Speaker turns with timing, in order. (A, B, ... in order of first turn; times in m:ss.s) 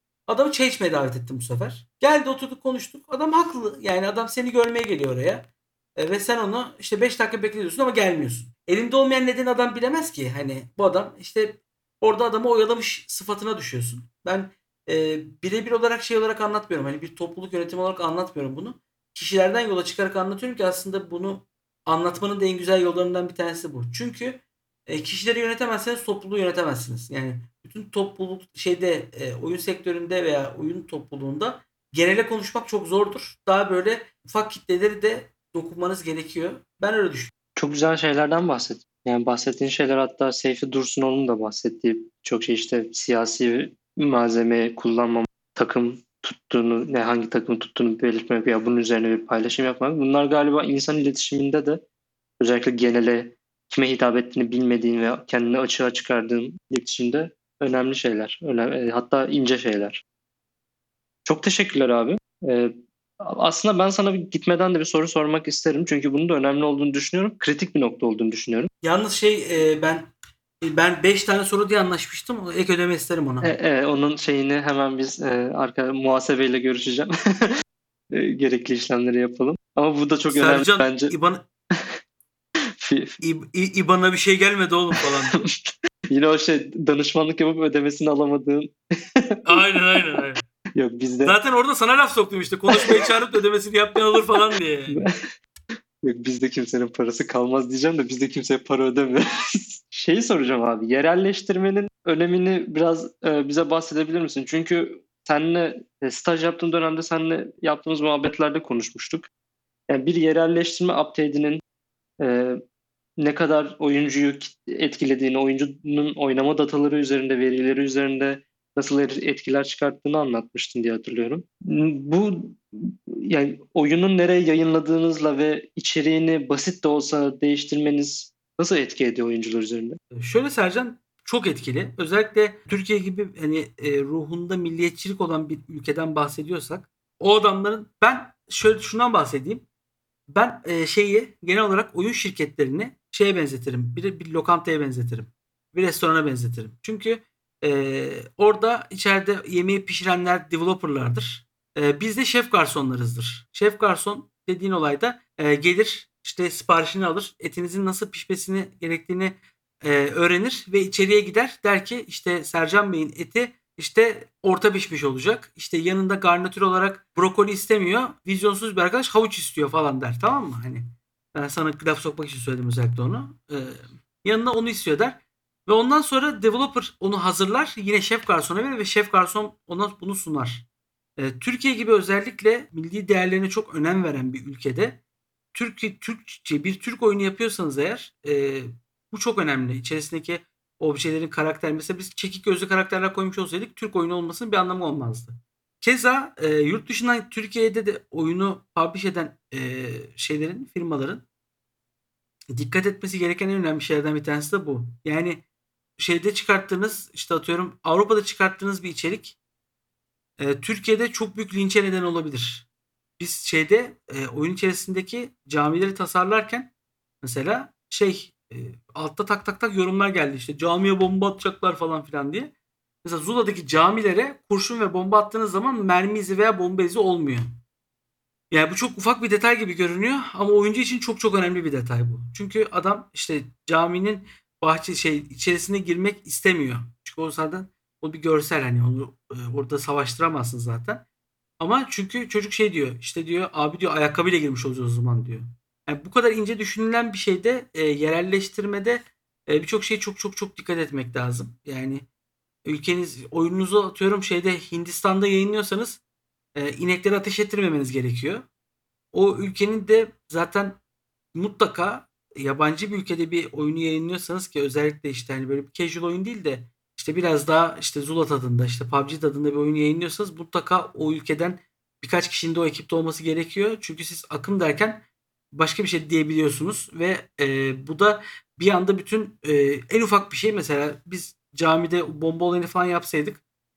0:00.3-0:37.3 A
0:37.6-0:51.8 B
0:52.4-1:00.0 B
1:01.2-1:08.7 B
1:08.8-1:10.1 A
1:10.6-1:13.5 A
1:13.4-1:17.5 B
1:18.1-1:21.1 B
1:20.3-1:21.5 A
1:22.8-1:23.2 B
1:23.2-1:25.4 A
1:25.0-1:29.4 B
1:29.4-1:30.4 A
1:30.8-1:31.3 B
1:31.2-1:35.0 A
1:36.0-1:49.3 B
1:49.9-1:51.6 B
1:52.2-1:52.6 B
1:53.2-2:10.0 B
2:10.1-2:19.6 A
2:20.3-3:00.6 A
3:01.2-3:05.0 A
3:05.5-3:21.2 A
3:22.5-3:25.4 A
3:26.0-3:29.4 A
3:30.4-3:32.7 A
3:33.2-3:36.7 A
3:37.2-3:42.5 A
3:43.0-3:47.5 A
3:48.5-4:01.0 A
4:01.6-4:12.0 A
4:12.6-4:16.0 A
4:16.6-4:18.4 A
4:19.1-4:20.8 A
4:21.3-4:43.4 A